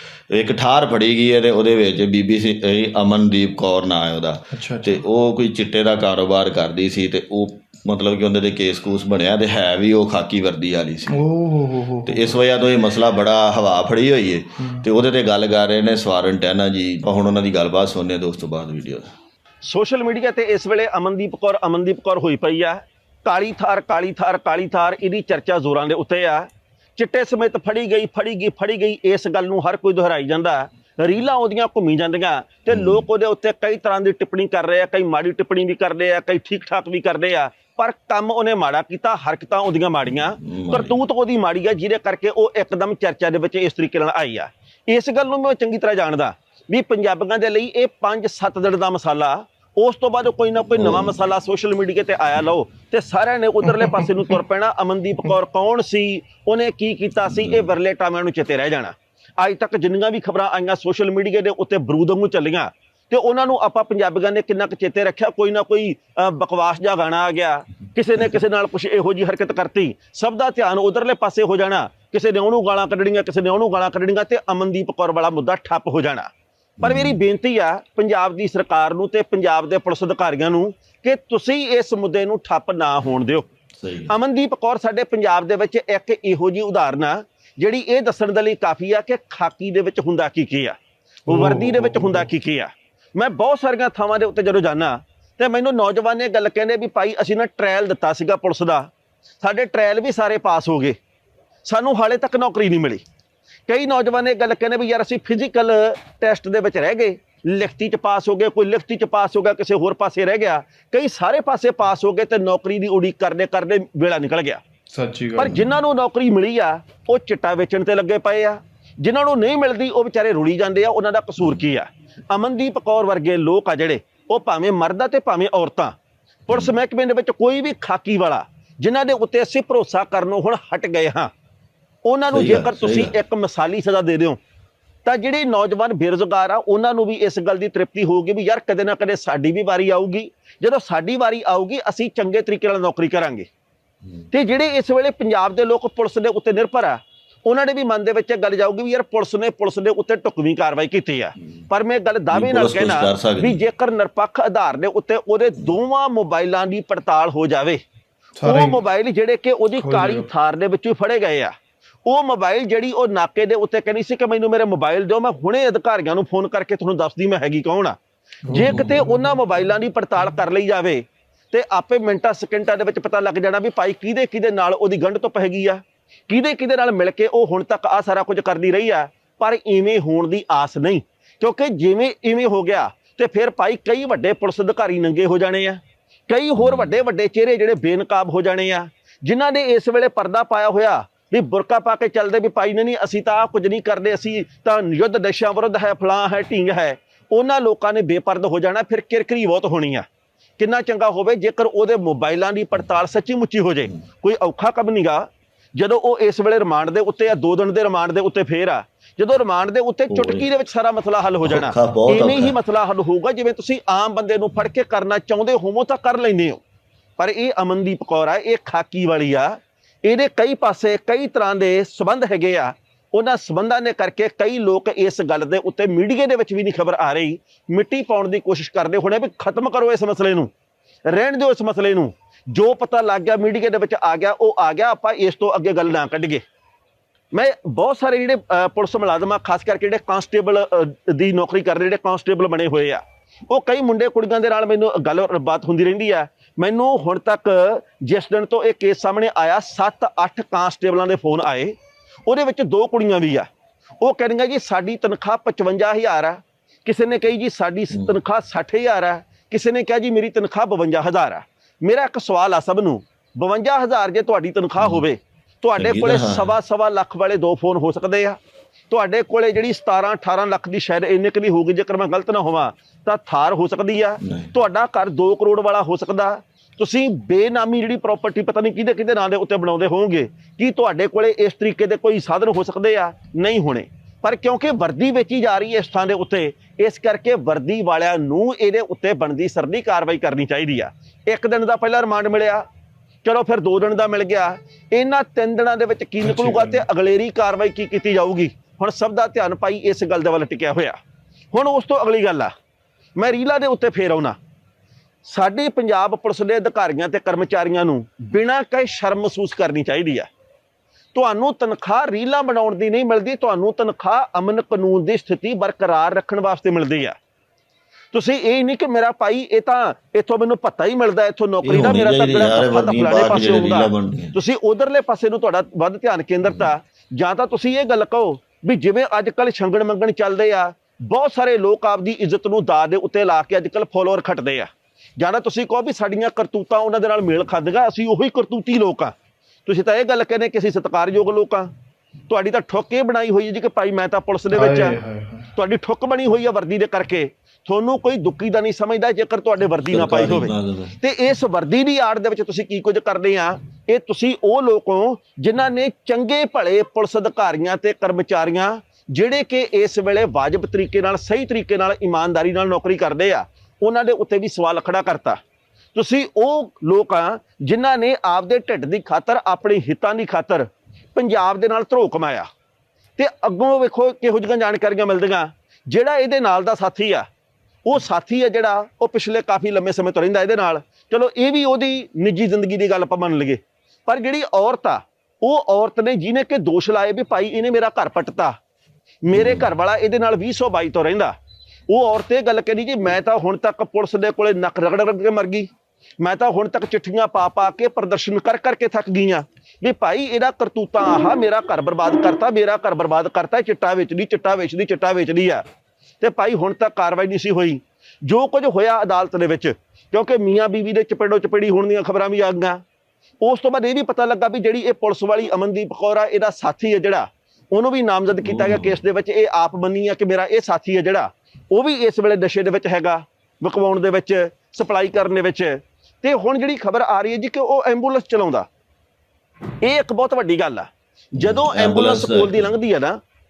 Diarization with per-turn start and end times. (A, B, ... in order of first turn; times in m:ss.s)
0:00.3-0:11.2 A
0:04.5-0:05.0 B
0:11.1-0:12.4 B
0:12.0-0:19.1 A
0:14.6-0:14.8 B
0:19.6-1:16.3 C
0:32.7-0:33.0 A
0:40.4-0:40.9 A
0:50.7-0:51.2 A
0:53.6-0:54.4 B
0:57.3-0:57.7 A
1:16.8-1:17.2 A
1:16.8-1:23.5 C
1:23.8-1:24.1 A
1:24.1-1:30.8 C
1:31.3-1:31.8 B
1:31.3-1:38.9 C
1:31.8-1:32.2 A
1:39.4-1:41.0 C
1:41.6-1:43.0 C
1:43.7-1:54.6 C
1:54.9-1:55.6 B
1:55.4-2:05.9 C
2:06.5-2:11.3 C
2:12.0-2:14.4 C
2:12.3-2:13.1 A
2:15.0-2:23.5 C
2:24.3-2:37.8 C
2:32.3-2:33.6 A
2:38.4-2:38.8 B
2:38.4-2:41.5 C
2:39.7-2:40.3 B
2:42.0-2:48.0 C
2:48.4-2:49.4 B
2:48.5-3:20.0 C
3:06.6-3:06.9 A
3:20.6-3:36.6 C
3:30.1-3:30.5 A
3:31.4-3:32.6 A
3:37.2-3:50.5 C
3:51.1-3:56.4 C
3:57.3-4:13.5 C
4:14.0-4:28.4 C
4:24.8-4:25.0 A
4:25.8-4:26.6 A
4:28.9-4:52.6 C
4:34.2-4:34.5 A
4:53.2-5:01.0 C
4:56.2-4:56.8 B
5:01.5-5:02.5 C
5:03.2-5:04.4 C
5:05.2-5:10.3 C
5:11.1-5:17.1 C
5:18.1-5:39.1 C
5:21.6-5:24.3 A
5:39.6-5:41.7 C
5:42.3-5:45.0 C
5:44.5-5:45.5 B
5:45.6-6:05.4 C
5:49.8-5:50.9 A
6:05.9-6:12.5 C
6:13.2-6:17.2 C
6:17.8-6:28.5 C
6:29.2-6:31.3 C
6:29.3-6:29.7 A
6:31.9-6:35.7 C
6:36.2-6:45.6 C
6:46.2-6:52.8 C
6:53.4-7:08.7 C
6:58.4-6:59.0 A
7:09.8-7:13.2 C
7:11.3-7:12.7 A